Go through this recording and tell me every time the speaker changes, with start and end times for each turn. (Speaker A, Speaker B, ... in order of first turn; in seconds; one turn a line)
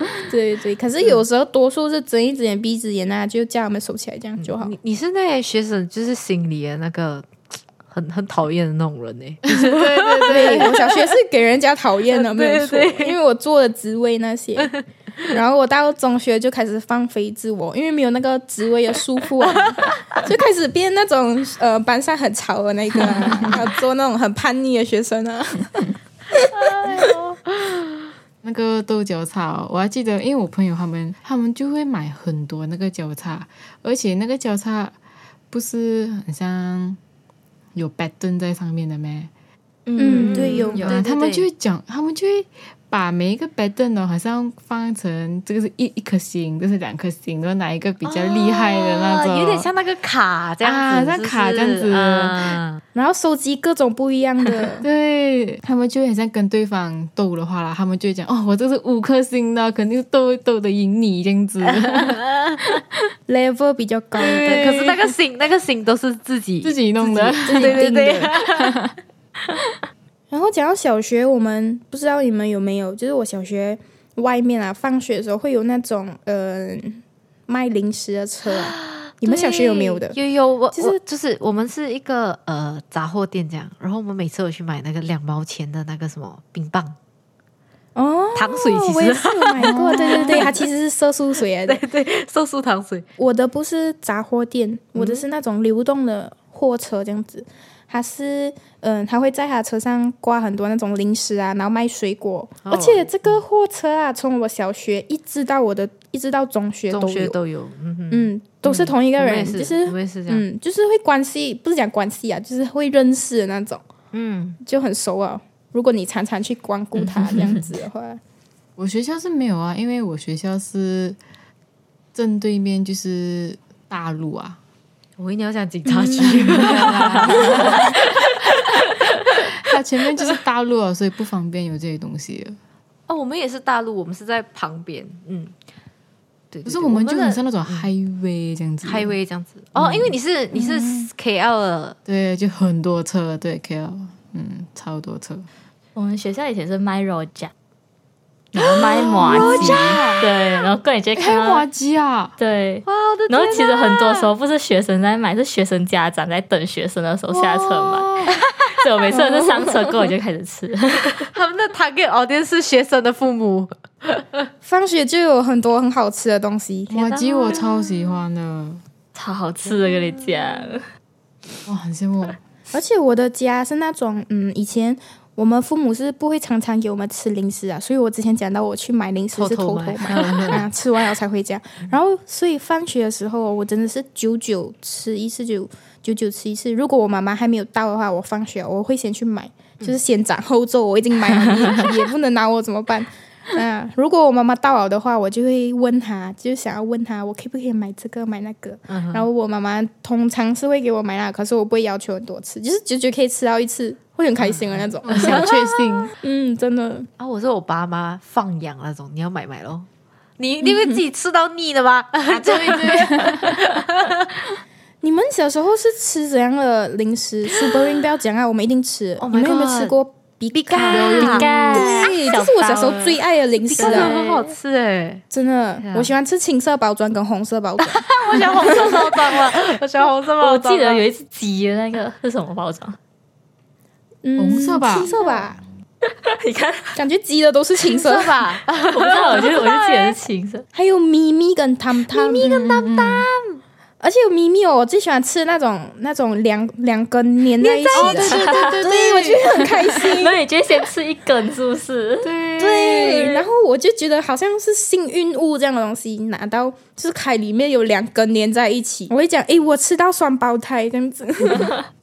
Speaker A: 0.2-4.7
Speaker B: 4.4-7.3
Speaker B: 7.9-10.9
Speaker C: 9.4-10.8
Speaker A: 10.3-14.7
Speaker B: 12.1-13.2
Speaker A: 15.3-27.1
Speaker B: 19.4-20.2
Speaker B: 26.5-28.1
Speaker C: 28.4-34.9
Speaker C: 35.5-37.0
Speaker C: 37.7-39.3
Speaker D: 39.9-40.7
Speaker A: 40.0-40.9
Speaker B: 40.2-41.5
Speaker C: 40.3-49.7
Speaker B: 48.0-52.8
Speaker C: 50.6-52.6
Speaker A: 52.9-54.9
Speaker C: 54.8-62.2
Speaker B: 61.6-62.8
Speaker A: 63.3-64.8
Speaker C: 64.2-65.1
Speaker B: 64.2-68.8
Speaker C: 66.6-68.9
Speaker A: 67.0-68.3
Speaker A: 70.3-80.2
Speaker B: 78.5-87.0
Speaker A: 87.9-91.8
Speaker B: 88.3-90.6
Speaker C: 89.6-90.5
Speaker B: 91.6-93.0
Speaker A: 93.2-107.3
Speaker B: 94.9-95.2
Speaker B: 102.6-103.4
Speaker B: 106.9-110.4
Speaker A: 108.1-113.8
Speaker B: 114.1-114.6
Speaker A: 114.6-118.2
Speaker C: 118.8-121.2
Speaker C: 122.1-124.6
Speaker B: 125.2-129.5
Speaker A: 125.8-127.7
Speaker C: 126.2-128.8
Speaker C: 129.5-132.6
Speaker B: 133.1-135.5
Speaker B: 136.5-137.9
Speaker C: 136.7-139.1
Speaker B: 138.8-142.0
Speaker C: 139.8-140.1
Speaker A: 140.6-141.0
Speaker C: 142.0-145.4
Speaker D: 145.9-147.5
Speaker C: 148.5-150.3
Speaker D: 148.6-151.7
Speaker B: 149.2-150.1
Speaker C: 151.2-152.3
Speaker D: 152.4-158.1
Speaker B: 152.8-154.3
Speaker C: 157.3-158.4
Speaker B: 158.3-158.9
Speaker D: 158.7-161.3
Speaker A: 159.1-159.9
Speaker B: 161.3-164.5
Speaker A: 164.6-167.0
Speaker C: 166.9-168.8
Speaker B: 167.0-168.2
Speaker D: 169.1-170.8
Speaker B: 169.7-170.7
Speaker C: 171.7-172.4
Speaker A: 172.7-207.1
Speaker B: 179.3-180.7
Speaker B: 198.9-199.2
Speaker B: 204.4-205.5
Speaker C: 205.0-206.1
Speaker B: 207.2-209.9
Speaker B: 210.4-214.5
Speaker C: 212.3-213.6
Speaker A: 215.0-224.2
Speaker B: 217.5-218.0
Speaker B: 219.2-219.9
Speaker B: 220.5-222.1
Speaker C: 220.9-221.8
Speaker D: 221.2-223.2
Speaker B: 223.7-225.2
Speaker D: 223.8-224.5
Speaker A: 225.3-228.0
Speaker B: 225.8-226.1
Speaker B: 227.8-231.0
Speaker A: 228.6-229.0
Speaker D: 230.4-233.0
Speaker A: 234.2-235.6
Speaker C: 234.4-235.1
Speaker D: 236.1-236.9
Speaker A: 236.9-238.4
Speaker B: 237.8-240.2
Speaker D: 238.9-240.6
Speaker A: 240.7-242.4
Speaker B: 242.1-243.6
Speaker C: 242.4-243.3
Speaker A: 244.0-250.4
Speaker B: 247.6-249.8
Speaker C: 247.9-250.1
Speaker D: 248.4-248.7
Speaker D: 249.9-252.3
Speaker C: 252.2-253.4
Speaker A: 252.6-261.8